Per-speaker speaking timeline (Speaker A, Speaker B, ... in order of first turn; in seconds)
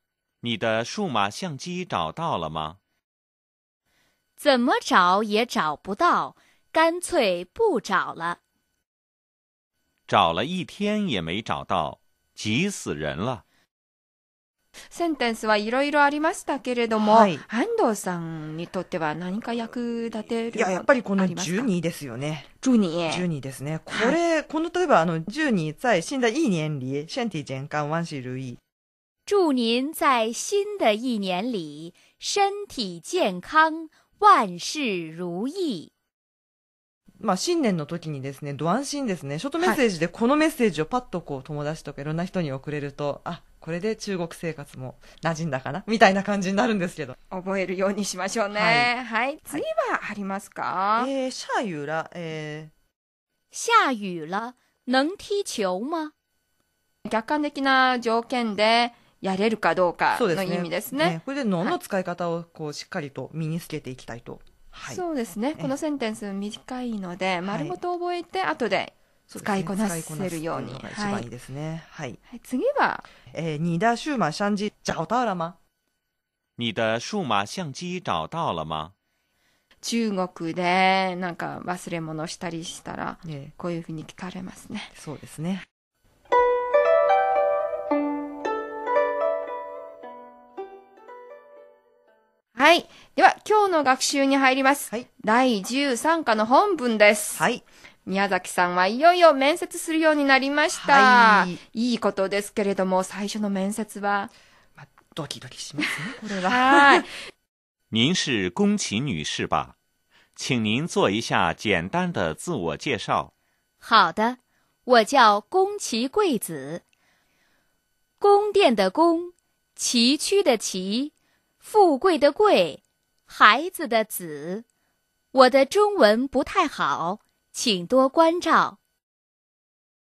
Speaker A: 0.4-2.8, 10.1-13.4, 76.6-78.9, 107.9-109.8, 110.4-113.3
Speaker B: 4.4-8.4, 29.3-35.9, 53.5-56.1, 113.8-116.8, 118.2-124.6, 125.3-128.8
Speaker C: 14.9-21.7, 22.6-23.3, 47.3-51.1, 57.0-61.2, 64.9-71.3, 72.3-73.1, 79.8-84.9, 92.5-97.4, 98.0-104.3, 106.4-107.1
Speaker D: 17.0-17.5, 20.5-22.5, 23.1-28.6, 37.2-47.2, 48.5-48.9, 51.0-52.7, 60.1-65.0, 67.5-67.8, 69.3-72.2, 73.3-75.6, 83.2-83.5, 84.9-85.6, 97.4-97.6, 100.7-101.6, 104.8-107.1